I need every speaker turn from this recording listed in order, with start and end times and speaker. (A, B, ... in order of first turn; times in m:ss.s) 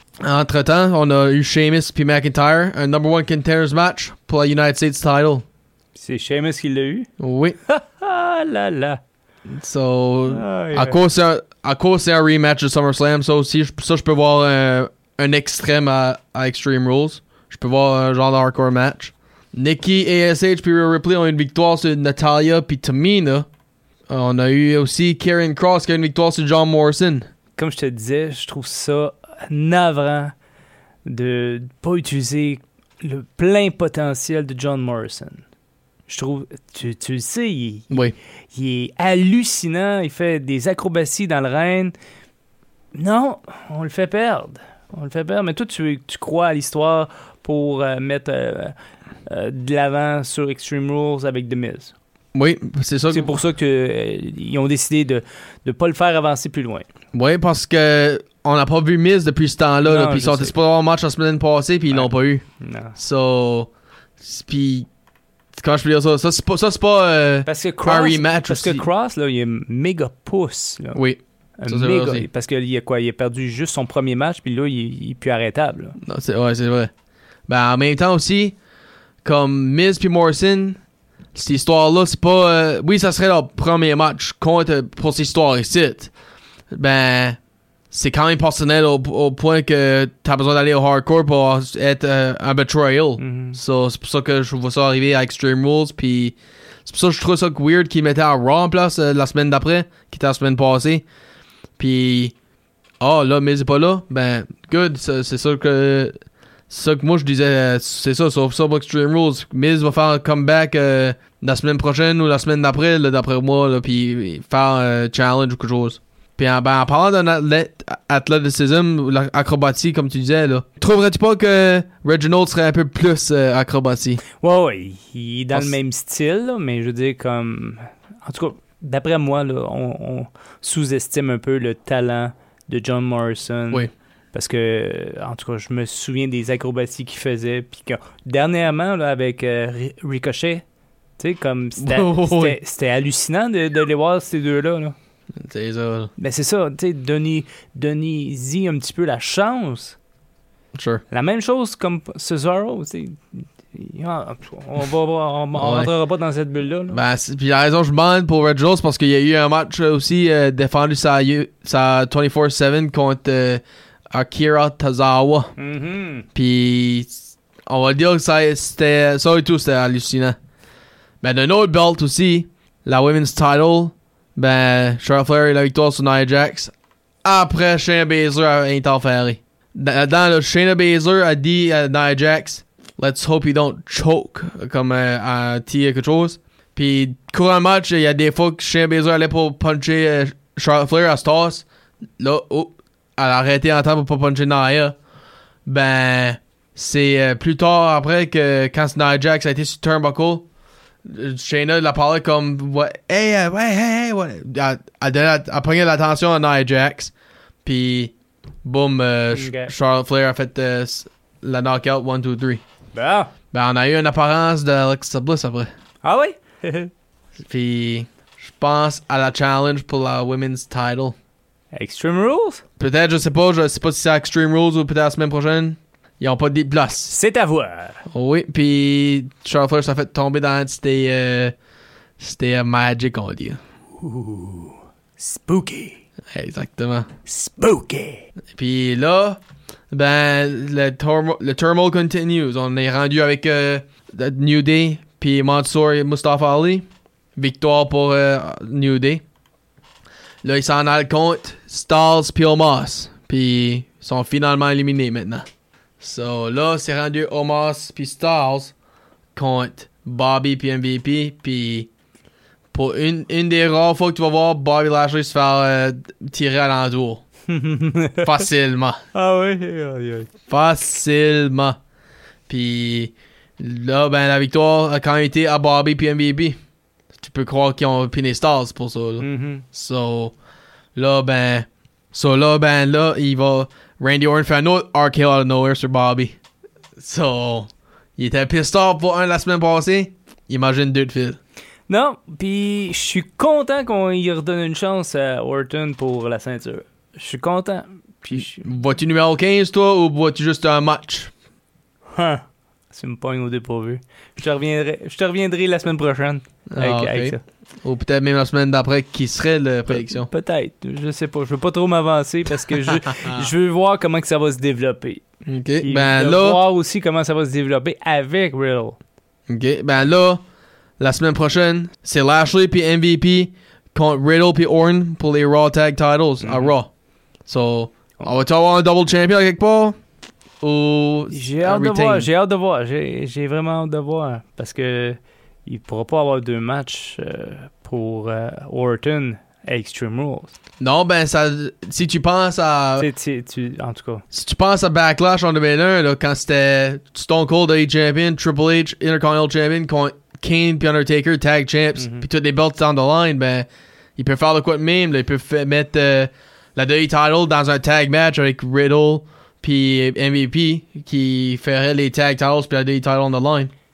0:00.2-0:05.4 A
0:06.0-0:07.1 B
0:07.2-0:07.6 A
0:07.7-0:09.0 B
0:09.5-0:23.5 A
0:10.3-0:11.0 B
0:24.1-0:27.2 A
0:27.6-0:30.3 B
0:31.0-0:35.4 B
0:36.1-0:38.0 B
0:38.5-0:41.9 B
0:42.9-0:51.9 B
0:52.3-0:53.3 A
0:53.1-0:56.8 B
0:57.1-1:04.9 A
0:59.8-1:00.5 B
1:02.6-1:02.9 B
1:05.6-1:08.8 A
1:07.4-1:11.0 B
1:10.9-1:12.2 A
1:11.6-1:16.0 B
1:16.0-1:16.9 A
1:17.5-1:18.6 A
1:19.2-1:20.8 A
1:21.3-1:26.1 A
1:26.7-1:27.4 A
1:27.9-1:41.0 A
1:33.2-1:33.6 B
1:41.8-1:42.3 A
1:43.0-1:46.1 A
1:46.7-2:04.2 A
2:04.4-2:20.6 B
2:21.2-2:24.9 B
2:21.8-2:22.6 A
2:25.4-2:26.1 A
2:26.2-2:30.0 B
2:30.7-2:31.0 A
2:31.1-2:37.0 B
2:35.5-2:35.9 A
2:36.9-2:45.5 A
2:45.6-2:46.2 B
2:46.3-2:50.4 A
2:51.2-2:56.7 A
2:57.2-3:11.6 A
3:12.2-3:15.0 A
3:15.6-3:20.4 A
3:21.0-3:27.1 A
3:27.6-3:28.1 A
3:28.6-3:32.6 A
3:29.3-3:29.7 B
3:32.9-3:33.3 B
3:33.5-3:35.7 A
3:36.0-3:36.9 B
3:37.4-3:41.2 A
3:41.7-3:42.6 B
3:42.8-3:47.1 A
3:47.1-3:48.0 B
3:48.1-3:51.5 A
3:52.2-3:53.6 A
3:54.0-3:56.0 B
3:56.3-3:57.1 A
3:57.2-3:58.3 B
3:58.5-3:59.4 A
3:59.9-4:06.8 A
4:07.4-4:09.2 A
4:10.4-4:15.4 A
4:16.0-4:18.7 A
4:19.3-4:21.9 A
4:22.7-4:27.2 A
4:27.5-4:28.3 B
4:28.2-4:29.0 A
4:29.1-4:30.3 B
4:30.5-4:31.8 A
4:32.5-4:36.6 A
4:37.2-4:40.3 A
4:39.2-4:39.6 B
4:40.9-4:46.4 A
4:47.0-4:51.4 A
4:51.9-4:58.6 B
4:58.3-5:01.3 A
5:02.1-5:07.4 B
5:06.7-5:10.3 A
5:09.9-5:15.2 B
5:13.1-5:13.5 A
5:15.5-5:16.6 A
5:15.8-5:19.0 B
5:19.5-5:20.4 A
5:21.0-5:26.9 A
5:26.4-5:26.7 B
5:27.4-5:30.0 A
5:30.6-5:32.3 A
5:31.3-5:40.5 B
5:40.8-5:43.1 A
5:43.0-5:44.2 B
5:44.3-6:03.7 A
5:52.0-5:52.2 B